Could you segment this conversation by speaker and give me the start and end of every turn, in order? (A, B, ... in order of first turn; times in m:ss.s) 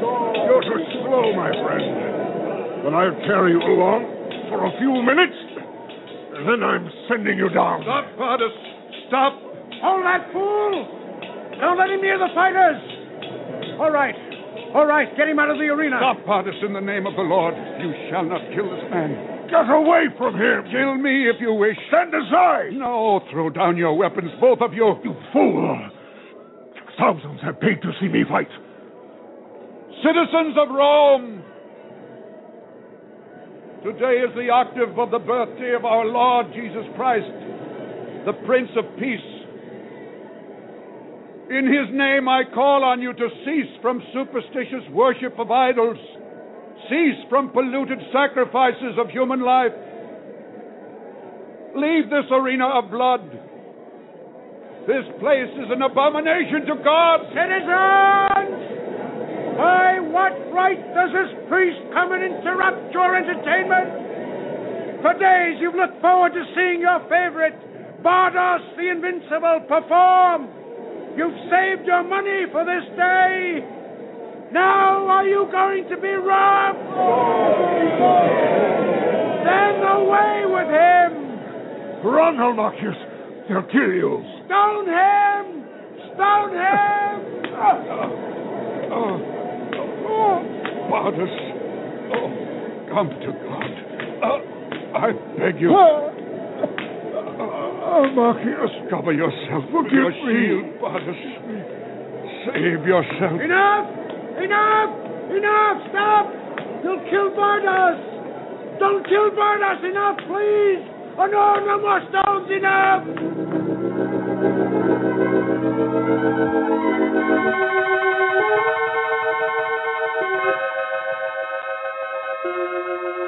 0:00.4-0:02.2 A
0:02.8-0:05.6 A
0:06.3-0:08.1 A
0:07.8-0:09.5 B
0:09.8-0:11.0 C
0:11.6-0:13.0 C
0:13.8-0:16.2 C
0:16.0-0:19.3 B
0:19.4-0:20.9 A
0:20.7-0:21.9 B
0:21.8-0:22.8 A
0:22.7-0:25.0 B
0:25.0-0:25.9 A
0:26.8-0:28.6 A
0:29.9-0:31.5 B
0:33.8-0:37.5 B
0:38.2-0:39.5 B
0:41.5-0:46.1 B
0:46.8-0:49.8 B
0:51.7-0:53.4 B
0:54.9-0:57.3 B
0:57.3-0:58.6 C
0:59.6-1:04.0 C
1:05.0-1:10.6 C
1:11.1-1:13.7 C
1:14.5-1:18.0 C
1:19.4-1:21.5 C
1:22.0-1:24.4 A
1:24.3-1:27.4 C
1:30.0-1:31.5 B
1:30.9-1:31.3 A
1:32.1-1:35.9 B
1:35.6-1:36.2 A
1:37.2-1:40.6 A
1:38.8-1:41.7 B
1:42.4-1:43.4 A
1:42.5-1:43.4 B
1:43.4-1:48.2 C
1:48.8-1:53.2 C